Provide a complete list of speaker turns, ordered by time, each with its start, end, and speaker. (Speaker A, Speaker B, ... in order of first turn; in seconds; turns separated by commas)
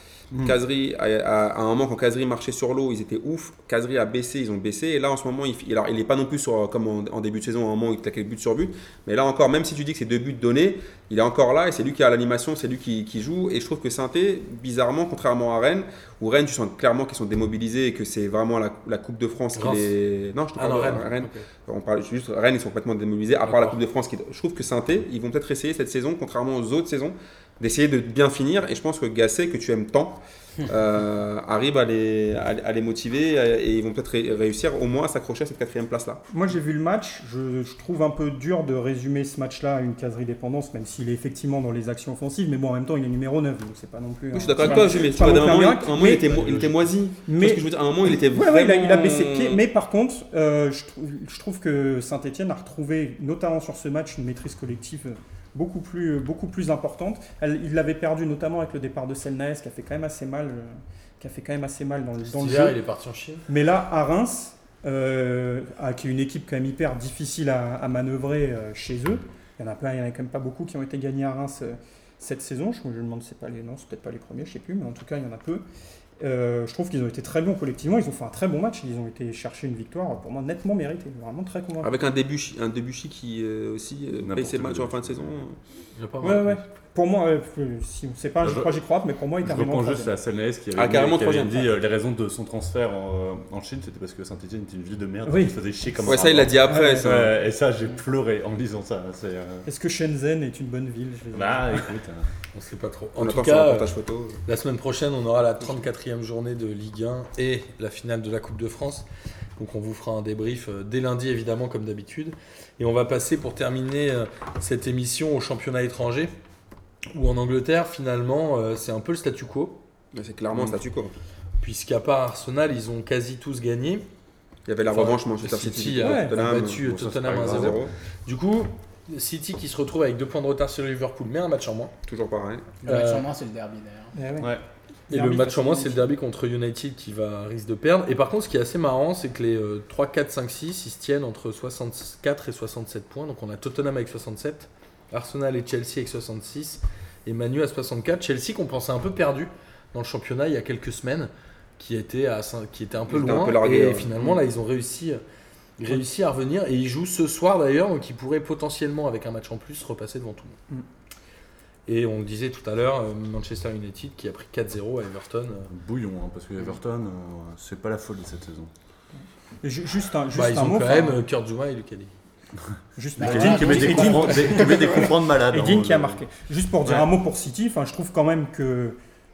Speaker A: 0.3-0.6, Speaker B: 0.4-36.2, Speaker C: 19.6-19.9, Speaker C: 20.6-21.5, Speaker C: 23.4-23.8, Speaker D: 36.3-46.6, Speaker B: 44.3-49.6, Speaker D: 47.3-62.8, Speaker C: 62.2-63.5, Speaker D: 63.5-75.7, Speaker D: 76.2-81.9, Speaker B: 81.8-85.6, Speaker A: 84.2-85.4, Speaker C: 86.0-86.7, Speaker D: 86.2-90.1, Speaker A: 88.4-88.7, Speaker A: 89.4-99.7, Speaker B: 90.8-91.7, Speaker D: 95.3-95.6, Speaker B: 96.0-97.3, Speaker D: 96.7-97.1, Speaker D: 99.7-101.9, Speaker A: 101.3-102.3, Speaker C: 102.5-103.9, Speaker B: 103.2-104.4, Speaker C: 104.5-116.3, Speaker C: 117.1-119.8, Speaker B: 120.1-121.1, Speaker C: 121.6-124.0, Speaker B: 124.7-127.9, Speaker C: 124.9-131.9, Speaker D: 126.0-126.4, Speaker A: 126.8-127.9, Speaker B: 132.1-132.7, Speaker E: 132.8-134.2, Speaker C: 132.8-133.3, Speaker D: 134.1-134.5, Speaker D: 135.1-136.1, Speaker C: 135.1-155.2, Speaker B: 153.1-154.3, Speaker C: 155.8-160.6, Speaker C: 161.9-165.7, Speaker A: 165.7-168.7, Speaker D: 169.6-171.2, Speaker C: 170.3-172.1, Speaker D: 173.0-179.0, Speaker A: 173.2-176.2, Speaker E: 173.2-174.9